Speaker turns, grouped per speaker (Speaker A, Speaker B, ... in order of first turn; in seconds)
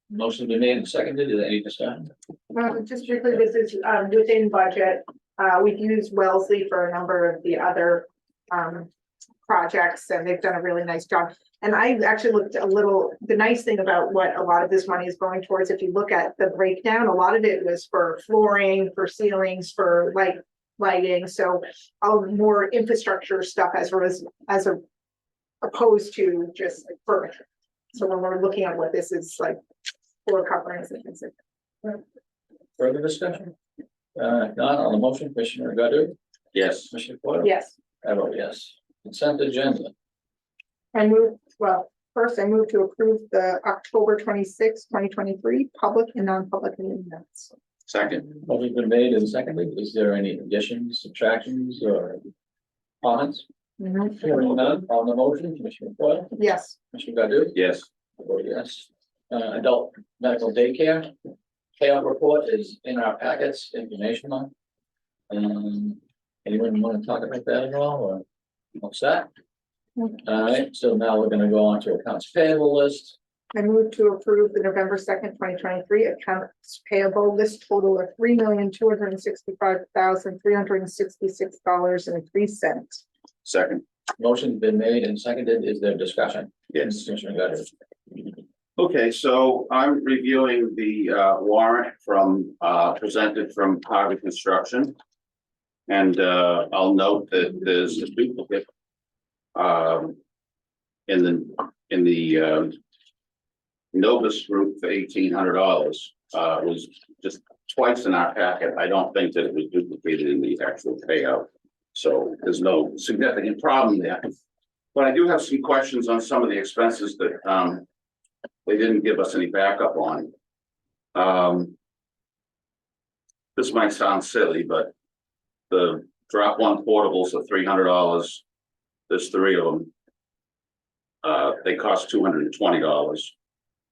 Speaker A: 0.1-2.1, 32.8-33.5, 34.1-36.1, 36.9-37.5, 38.0-39.9, 48.4-52.2, 53.0-53.4, 54.2-56.3, 56.9-57.5, 58.2-61.1, 61.8-64.5, 65.3-68.2, 68.8-69.3, 70.2-73.2, 84.2-87.7
Speaker B: 2.5-8.9, 9.4-24.8, 25.6-27.4, 27.9-29.6, 30.2-31.3, 37.4-37.7, 40.9-47.5, 53.8-54.2, 56.3-56.8, 73.5-83.0
Speaker C: 36.5-36.9, 47.9-48.2, 57.5-57.9, 83.4-83.8, 88.8-94.9, 95.9-98.6, 99.5-100.2, 101.1-102.8, 103.9-114.3, 114.9-117.8, 118.7-120.3, 121.1-121.7, 123.5-124.9, 125.7-128.4, 129.1-129.9, 131.2-133.3